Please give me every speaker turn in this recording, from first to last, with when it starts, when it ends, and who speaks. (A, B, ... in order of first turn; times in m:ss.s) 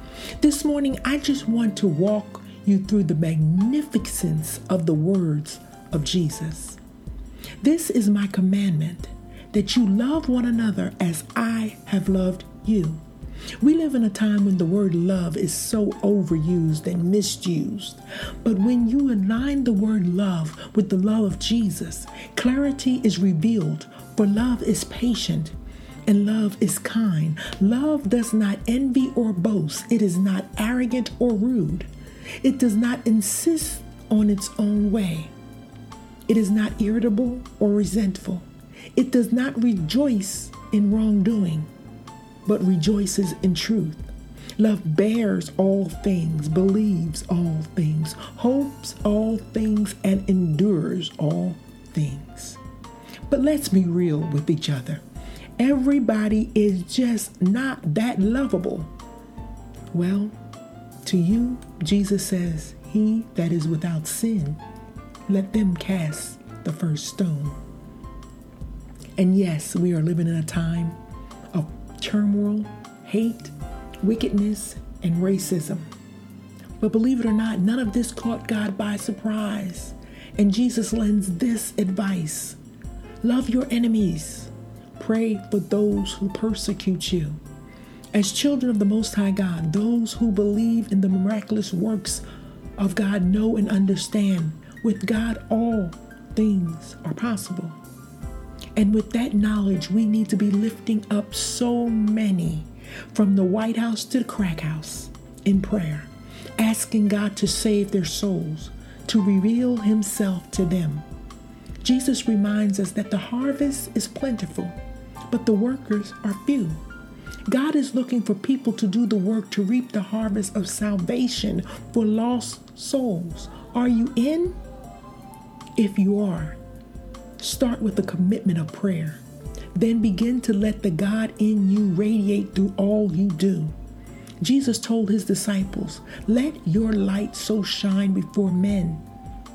0:00.4-0:06.8 A
0:07.6-0:13.0 A
0:13.6-0:25.5 A
0:26.1-0:31.9 A
0:32.4-0:35.3 A
0:36.3-0:41.7 A
0:42.4-0:44.1 A
0:44.6-0:52.6 A
0:53.3-0:55.0 A
0:55.6-0:58.9 A
0:59.9-1:00.3 A
1:01.0-1:04.6 A
1:05.3-1:07.6 A
1:09.2-1:11.0 A
1:11.5-1:15.9 A
1:16.8-1:22.6 A
1:23.2-1:27.4 A
1:28.1-1:32.2 A
1:32.8-1:37.8 A
1:38.8-1:51.0 A
1:51.8-1:54.8 A
1:55.3-1:56.8 A
1:57.5-2:04.6 A
2:05.8-2:06.6 A
2:07.4-2:09.2 A
2:09.8-2:13.8 A
2:14.4-2:19.0 A